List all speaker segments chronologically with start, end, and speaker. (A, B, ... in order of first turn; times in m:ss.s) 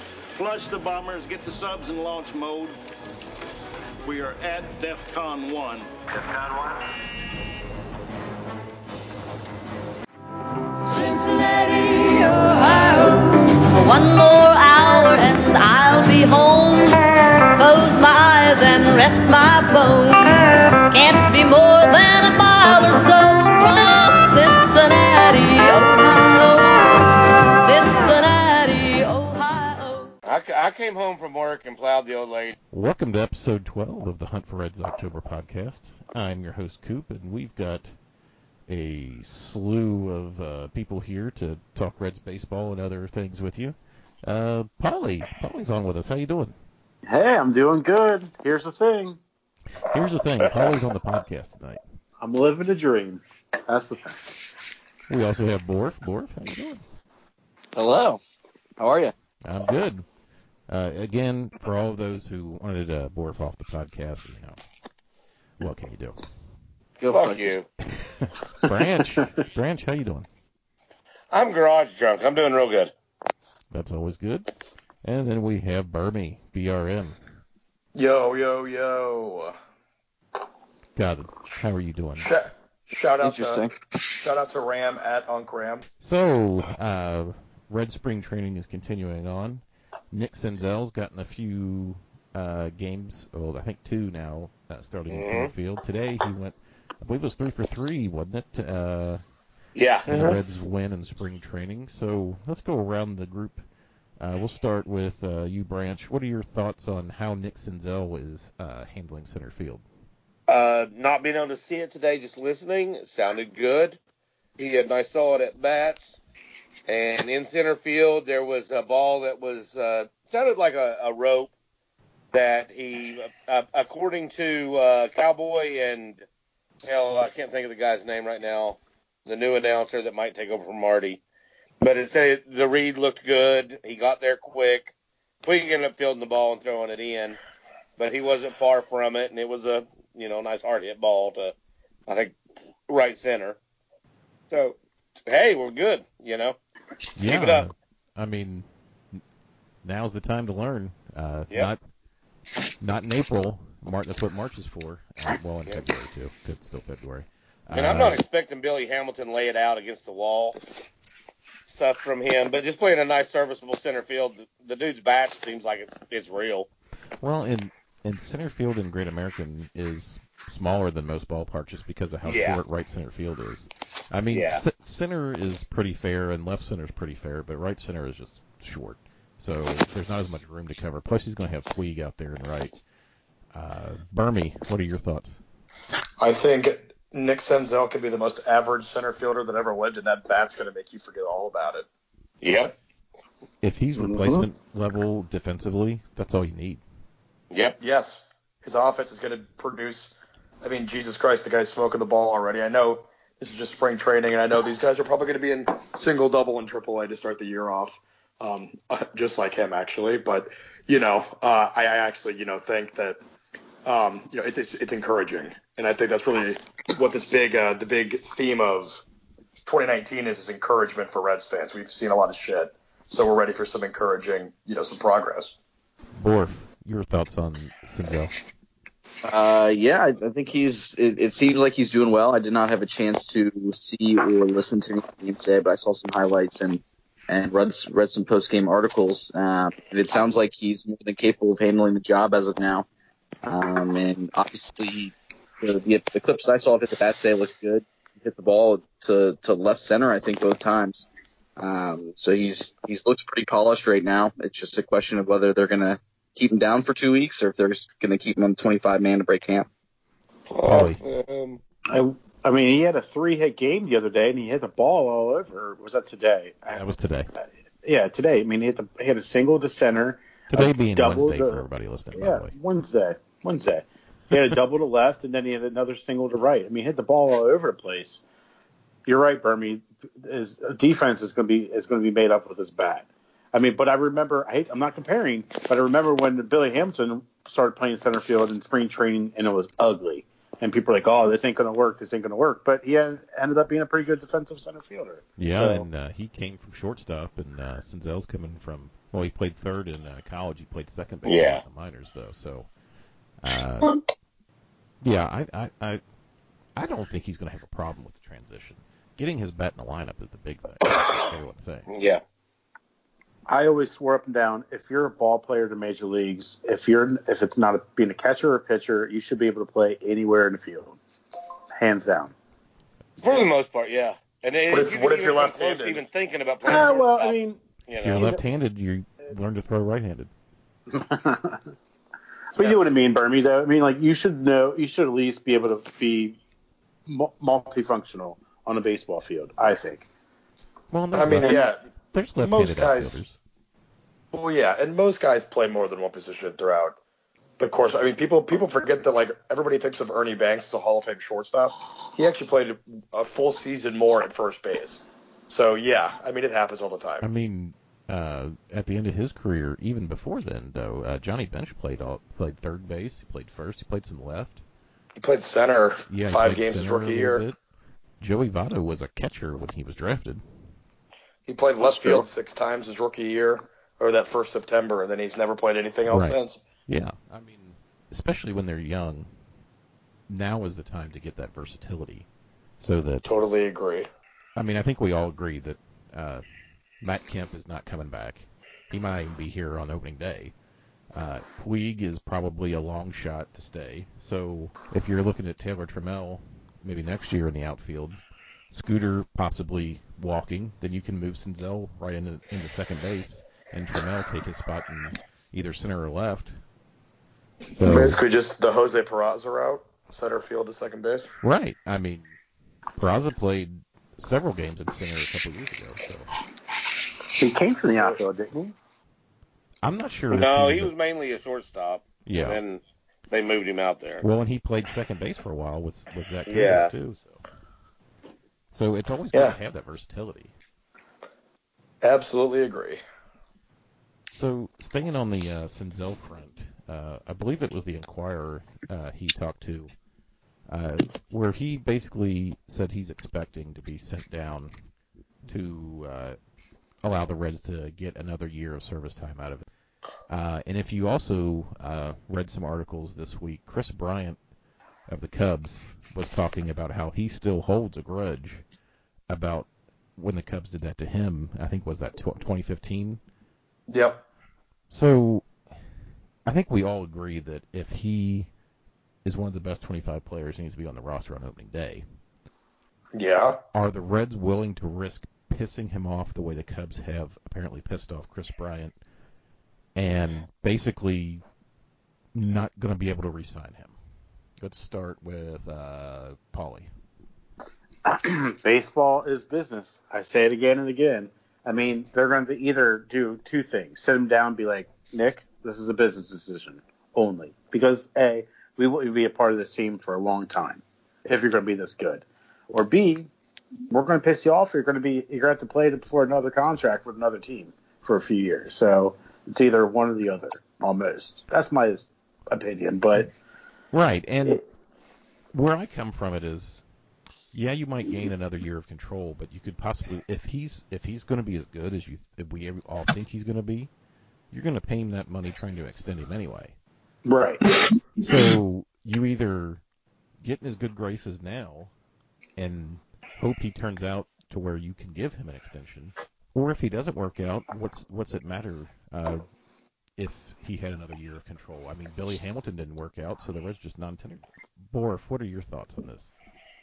0:00.3-0:02.8 A
0:04.0-0:06.8 A
0:10.9-0:30.1 B
0:25.6-0:25.9 C
0:30.2-0:32.6 C
0:32.7-0:37.9 D
0:38.7-0:46.6 D
0:47.0-0:49.2 E
0:49.8-0:51.8 D
0:52.2-0:54.2 E
0:55.1-0:56.8 D
0:57.7-0:58.2 F
0:58.8-0:59.1 F
0:59.4-1:00.0 D
1:00.7-1:04.6 D
1:05.6-1:06.2 D
1:07.0-1:07.6 F
1:07.1-1:07.7 C
1:08.0-1:10.3 D
1:11.3-1:12.9 C
1:13.7-1:14.5 D
1:15.0-1:17.2 D
1:17.9-1:19.6 G
1:21.0-1:22.3 D
1:22.2-1:25.9 G
1:23.2-1:23.7 F
1:26.0-1:39.2 D
1:35.1-1:35.5 C
1:39.7-1:40.4 C
1:40.0-1:43.6 D
1:44.2-1:49.8 D
1:50.5-1:54.0 C
1:54.6-1:56.2 C
1:56.9-2:01.5 C
2:02.3-2:06.2 C
2:06.8-2:11.2 C
2:11.8-2:14.9 C
2:15.4-2:17.4 C
2:18.0-2:21.5 C
2:22.1-2:22.4 C
2:22.9-2:23.6 C
2:24.5-2:26.6 C
2:27.2-2:29.2 D
2:27.2-2:27.6 C
2:29.8-2:31.8 D
2:32.8-2:38.2 D
2:37.7-2:40.6 C
2:41.7-2:46.7 C
2:47.2-3:02.7 D
2:52.2-2:52.6 C
2:54.3-2:54.6 C
3:03.5-3:05.4 D
3:06.2-3:11.8 G
3:12.4-3:12.8 C
3:13.6-3:16.8 D
3:14.0-3:14.5 E
3:17.5-3:17.8 C
3:17.8-3:33.2 G
3:33.8-3:39.0 G
3:39.6-3:45.5 G
3:46.2-3:48.3 D
3:49.2-4:02.8 F
4:03.4-4:19.7 F
4:20.5-4:21.6 C
4:20.6-4:21.0 D
4:21.9-4:38.2 E
4:26.7-4:27.3 D
4:30.5-4:32.5 D
4:39.0-4:55.9 E
4:55.4-5:02.7 D
5:01.2-5:01.6 C
5:03.4-5:04.0 D
5:05.0-5:06.0 D
5:06.8-5:11.9 D
5:11.9-5:12.2 C
5:13.5-5:21.0 E
5:21.8-5:22.4 E
5:23.2-5:27.4 C
5:24.7-5:26.0 G
5:26.6-5:27.6 E
5:27.9-5:28.2 C
5:28.0-5:30.3 D
5:30.9-5:31.6 E
5:32.6-5:36.4 E
5:37.0-5:40.1 E
5:40.9-5:43.4 D
5:41.1-5:41.8 G
5:41.4-5:41.6 E
5:42.4-5:43.2 G
5:44.3-5:47.0 G
5:47.6-5:57.3 G
5:57.2-6:04.6 D
6:05.2-6:07.4 G
6:06.1-6:07.6 D
6:08.2-6:10.4 D
6:11.5-6:16.6 G
6:11.8-6:12.3 D
6:16.1-6:19.3 D
6:20.3-6:22.3 D
6:22.8-6:23.2 D
6:23.2-6:24.1 G
6:24.6-6:26.4 D
6:27.0-6:30.5 D
6:31.1-6:38.2 D
6:38.7-6:46.6 D
6:47.7-6:48.2 D
6:47.8-6:51.3 G
6:51.4-6:52.3 D
6:53.0-6:56.3 D
6:57.4-6:58.7 E
6:59.8-7:00.9 D
7:00.3-7:04.2 C
7:02.2-7:02.6 D
7:04.2-7:07.4 D
7:06.5-7:06.9 C
7:08.7-7:10.5 D
7:12.0-7:13.0 G
7:14.3-7:19.9 D
7:20.7-7:24.8 D
7:25.4-7:26.4 D
7:27.0-7:29.7 D
7:30.3-7:34.4 D
7:35.1-7:38.6 D
7:39.3-7:43.2 D
7:43.9-7:44.2 G
7:44.9-7:45.5 D
7:46.4-7:48.5 D
7:49.2-7:52.0 D
7:53.1-7:53.6 G
7:53.7-7:58.9 D
8:00.0-8:01.4 D
8:02.3-8:04.0 D
8:04.6-8:06.9 D
8:08.0-8:23.3 E
8:23.9-8:33.3 E
8:33.9-8:34.6 D
8:35.5-8:36.8 D
8:37.5-8:43.9 D
8:44.5-8:46.7 D
8:47.2-8:47.6 E
8:48.2-8:49.8 D
8:50.4-8:51.9 D
8:52.6-8:59.4 D
9:00.2-9:06.3 D